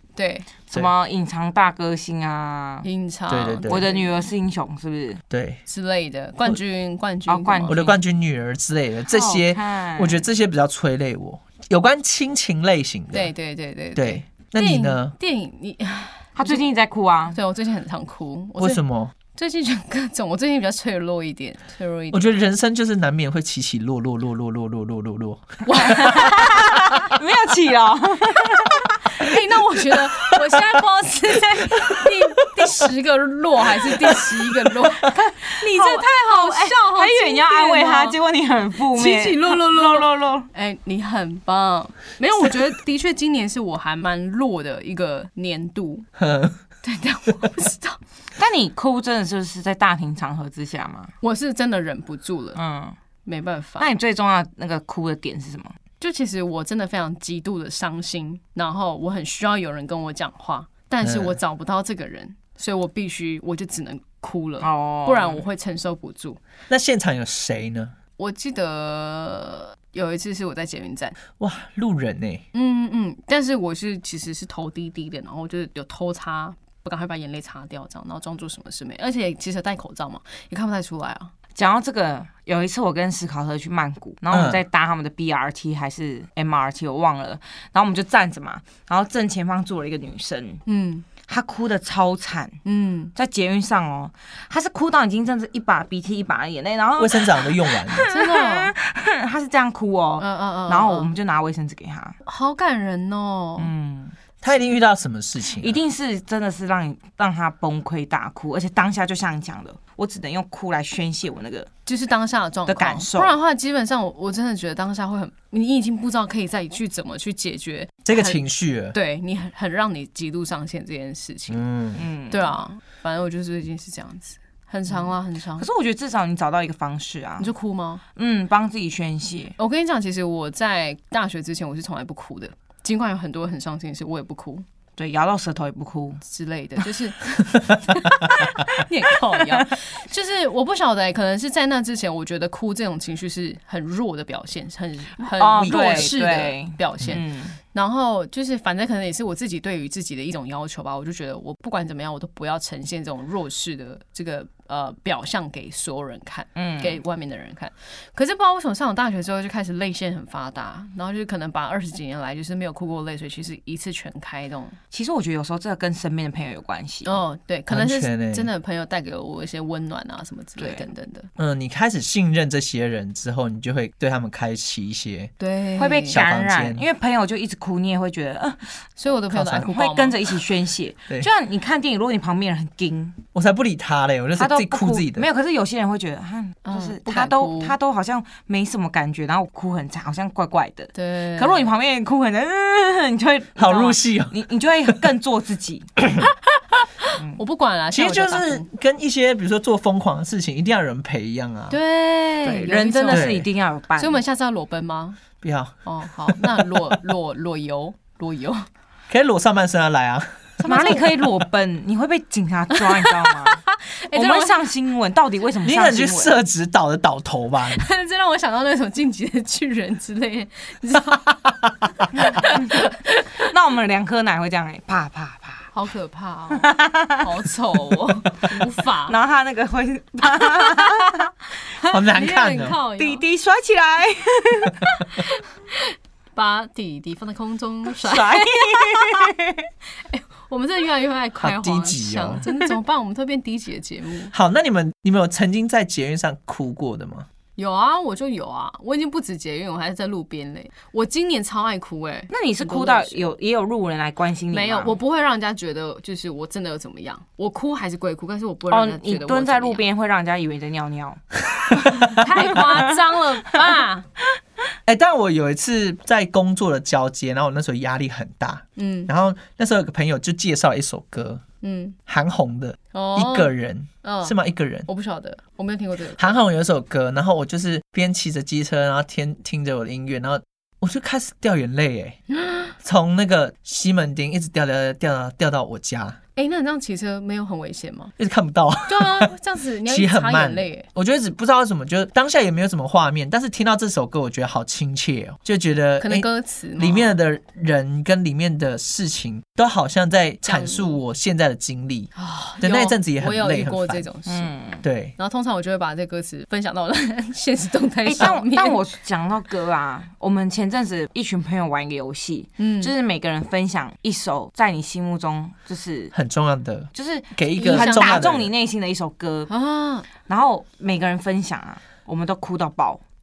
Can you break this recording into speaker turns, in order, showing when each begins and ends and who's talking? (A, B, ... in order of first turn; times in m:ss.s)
0:00.2-0:00.5 A
0:00.7-0:02.9 B
0:02.8-0:04.2 A
0:03.3-0:03.9 C
0:03.7-0:05.2 B
0:05.3-0:05.6 C
0:05.7-0:07.8 A
0:07.3-0:08.0 B
0:07.7-0:13.3 C
0:09.1-0:10.2 B
0:13.1-0:16.7 A
0:14.0-0:15.1 C
0:16.4-0:17.4 B
0:17.3-0:18.8 A
0:18.6-0:19.1 C
0:19.3-0:22.4 A
0:22.1-0:26.4 C
0:25.6-0:27.1 A
0:25.8-0:28.9 B
0:29.1-0:38.2 A
0:35.5-0:40.5 B
0:38.9-0:46.1 A
0:46.2-0:46.6 C
0:46.8-0:48.0 A
0:48.4-0:51.1 B
0:51.2-0:52.6 A
0:52.6-0:53.0 B
0:53.2-0:53.9 A
0:53.8-0:55.8 B
0:56.0-1:06.4 A
1:01.0-1:01.4 C
1:04.6-1:05.4 B
1:06.7-1:07.9 C
1:08.2-1:11.2 A
1:11.4-1:12.4 C
1:12.5-1:21.3 A
1:21.6-1:30.6 B
1:24.3-1:24.6 C
1:30.7-1:31.1 A
1:31.2-1:32.6 B
1:32.6-1:33.1 A
1:33.2-1:42.2 B
1:37.0-1:38.0 C
1:38.1-1:38.7 A
1:40.2-1:41.1 A
1:42.2-1:43.7 A
1:43.6-1:44.2 B
1:44.4-1:45.8 C
1:45.6-1:51.7 B
1:51.9-1:58.4 A
1:52.7-1:53.4 B
1:58.0-1:59.0 C
1:58.9-2:01.6 A
2:01.5-2:02.0 C
2:02.0-2:02.5 B
2:02.3-2:05.7 A
2:05.6-2:07.5 B
2:07.4-2:08.0 A
2:08.2-2:09.6 B
2:09.6-2:14.6 A
2:15.0-2:16.2 B
2:16.2-2:44.8 A
2:25.4-2:27.6 B
2:25.6-2:26.1 C
2:36.6-2:37.0 B
2:44.9-2:47.2 B
2:47.0-2:51.3 A
2:47.7-2:48.5 C
2:50.6-2:50.8 B
2:51.4-2:55.3 C
2:55.4-2:56.2 A
2:55.8-2:58.8 B
2:56.1-2:56.8 C
2:59.0-3:00.2 A
2:59.3-2:59.7 C
2:59.5-3:03.2 B
3:03.3-3:05.3 C
3:04.4-3:15.9 B
3:06.7-3:07.8 A
3:11.0-3:11.7 A
3:13.6-3:14.4 C
3:16.8-3:18.7 A
3:17.9-3:21.8 C
3:21.7-3:23.4 A
3:22.4-3:24.2 B
3:23.1-3:23.5 C
3:24.0-3:25.2 A
3:25.4-3:27.0 C
3:25.8-3:28.7 A
3:29.1-3:30.5 C
3:30.6-3:31.1 A
3:30.7-3:33.6 B
3:32.8-3:34.6 A
3:34.1-3:36.4 B
3:35.6-3:37.8 C
3:37.8-3:43.3 A
3:42.5-3:42.8 B
3:43.4-3:45.7 B
3:45.7-3:49.2 A
3:46.6-3:47.3 B
3:49.1-3:51.3 B
3:50.3-3:51.2 A
3:51.8-3:53.2 A
3:51.9-3:52.8 C
3:53.0-3:54.8 B
3:55.0-3:59.3 A
3:58.0-3:59.6 B
4:00.1-4:04.3 A
4:01.4-4:02.4 C
4:04.3-4:07.3 C
4:07.6-4:13.3 A
4:12.3-4:15.0 B
4:14.5-4:19.8 A
4:18.7-4:21.2 B
4:21.7-4:24.1 A
4:21.8-4:22.2 C
4:22.5-4:23.0 B
4:24.9-4:31.4 C
4:28.8-4:29.1 A
4:31.6-4:32.0 A
4:32.1-4:34.9 C
4:32.9-4:33.5 A
4:34.0-4:36.4 A
4:36.2-4:42.2 C
4:42.4-4:42.7 A
4:42.8-4:46.2 C
4:46.4-4:48.1 A
4:48.2-4:49.3 C
4:48.9-4:50.9 A
4:49.8-5:04.0 C
4:56.0-4:57.2 A
5:00.4-5:01.0 A
5:02.2-5:04.6 A
5:04.3-5:04.8 B
5:04.8-5:05.2 C
5:05.2-5:08.8 A
5:08.1-5:16.1 B
5:12.6-5:12.9 A
5:16.1-5:18.5 C
5:16.9-5:19.5 B
5:17.6-5:18.3 A
5:19.5-5:20.1 A
5:20.2-5:23.0 B